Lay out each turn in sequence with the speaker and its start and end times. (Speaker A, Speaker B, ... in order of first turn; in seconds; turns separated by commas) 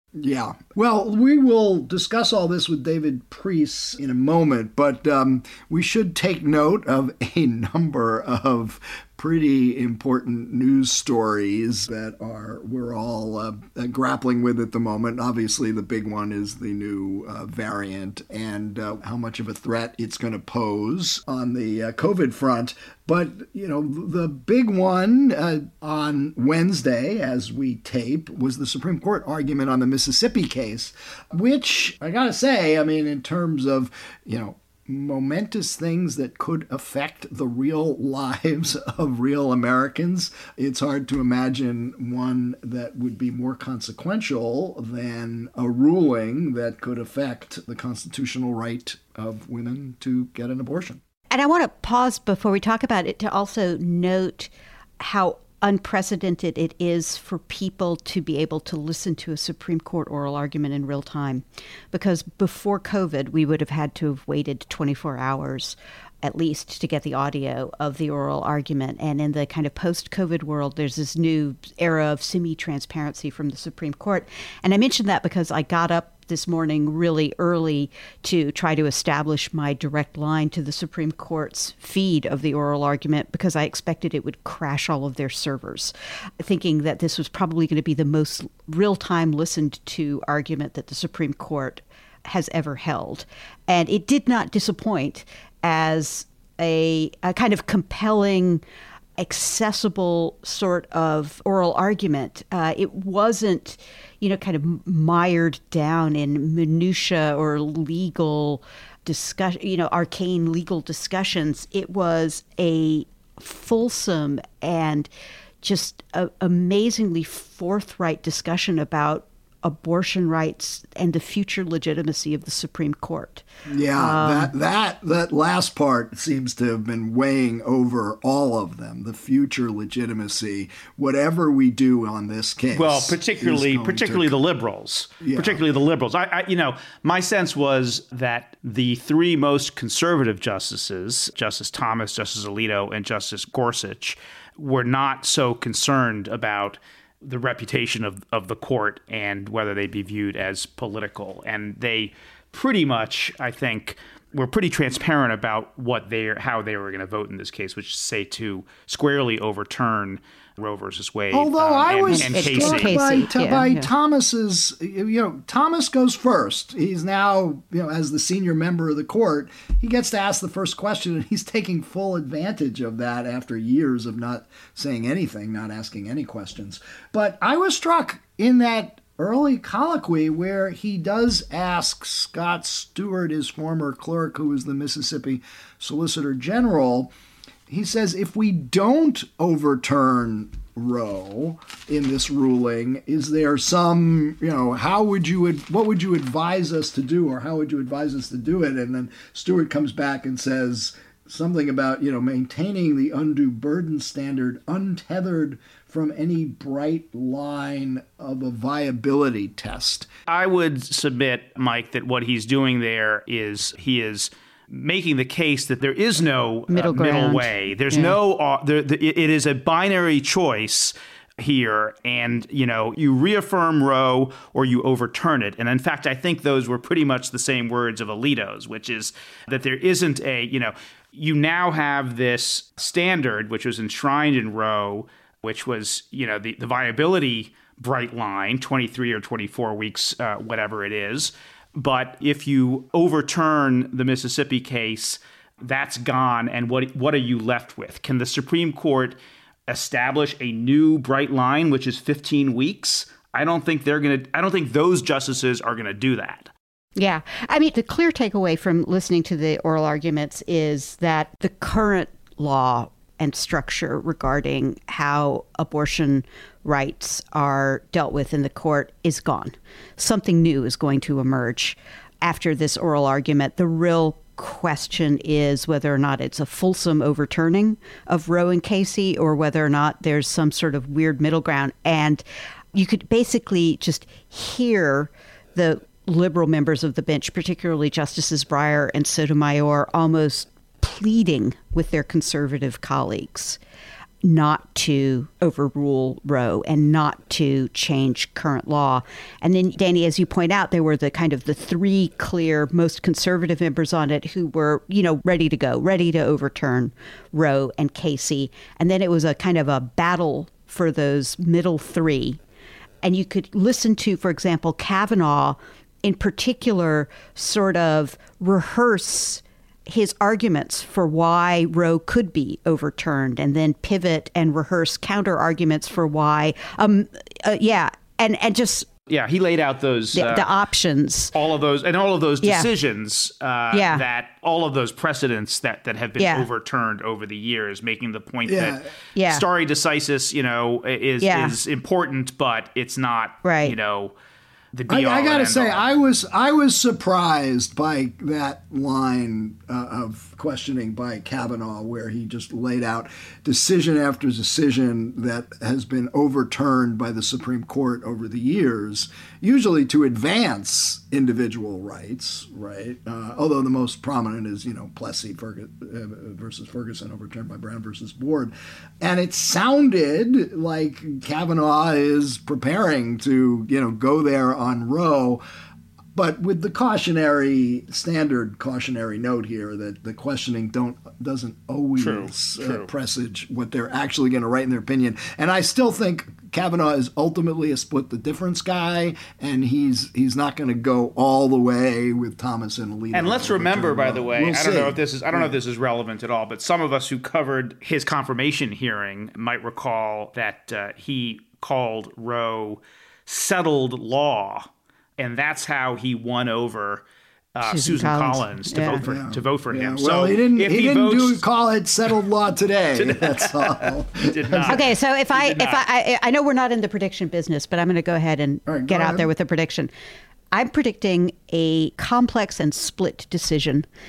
Speaker A: 0.2-51.0, Speaker B: 51.3-98.6, Speaker B: 99.2-115.1, Speaker B: 115.6-123.5, Speaker A: 123.7-134.3, Speaker B: 124.0-124.5, Speaker C: 132.7-163.2, Speaker A: 135.2-135.6, Speaker A: 161.3-187.1, Speaker B: 162.1-163.9, Speaker A: 187.7-210.1, Speaker C: 210.3-256.5, Speaker B: 216.7-218.2, Speaker B: 257.0-293.6, Speaker B: 294.2-312.4, Speaker B: 313.0-328.9, Speaker C: 329.1-330.5, Speaker B: 330.1-331.3, Speaker C: 331.3-344.1, Speaker B: 332.4-332.7, Speaker B: 333.7-334.1, Speaker B: 336.2-336.5, Speaker A: 338.5-338.9, Speaker B: 339.1-339.4, Speaker B: 341.2-341.6, Speaker B: 343.4-343.8, Speaker C: 344.7-345.8, Speaker A: 344.9-375.4, Speaker A: 376.1-395.5, Speaker C: 382.0-382.9, Speaker C: 393.1-407.0, Speaker C: 407.6-411.4, Speaker B: 407.6-409.1, Speaker A: 409.0-414.8, Speaker C: 413.0-415.8, Speaker B: 414.7-419.9, Speaker A: 418.7-419.3, Speaker B: 420.5-423.9